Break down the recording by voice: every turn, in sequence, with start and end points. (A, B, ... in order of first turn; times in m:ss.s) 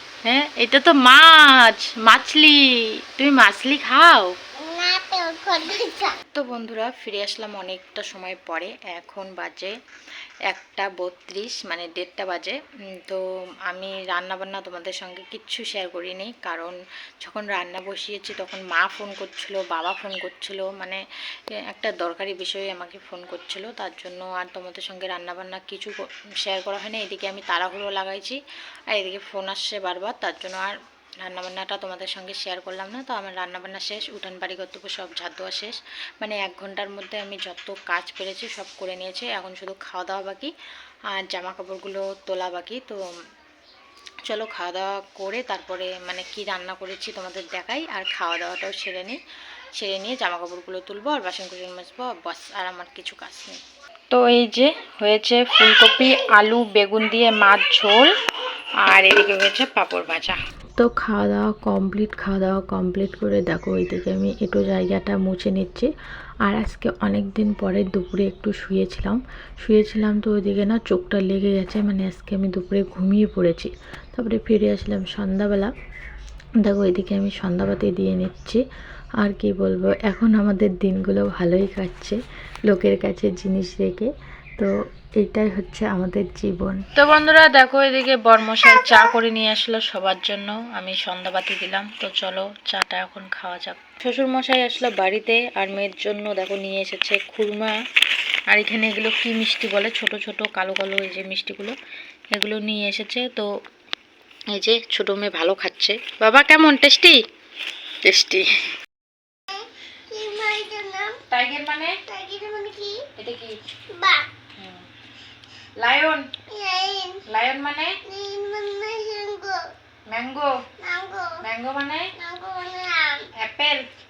0:00.2-0:04.4 A
0:04.6-0:06.2 B
0:06.3-0:09.8 A
0:10.5-0:21.0 A
0:21.7-0:28.4 A
0:28.9-0:40.5 A
0:41.1-0:43.0 A
0:44.2-0:49.2 A
0:49.7-0:58.1 A
0:58.8-1:00.4 A
1:00.8-1:05.9 C
1:06.4-1:15.7 C
1:16.6-1:18.6 C
1:19.2-1:26.8 C
1:26.9-1:37.8 A
1:38.5-1:41.7 A
1:42.3-1:43.5 A
1:44.5-1:47.2 A
1:48.0-1:48.7 A
1:49.5-1:51.2 B
1:51.3-1:52.0 A
1:52.1-1:53.1 B
1:53.1-1:53.5 A
1:53.9-1:54.3 B
1:54.6-1:54.9 A
1:55.8-1:56.3 A
1:56.5-1:57.2 B
1:57.2-1:58.0 A
1:58.0-1:59.6 B
2:00.1-2:00.6 A
2:00.8-2:01.4 B
2:01.4-2:02.1 A
2:02.2-2:03.3 B
2:03.4-2:03.9 A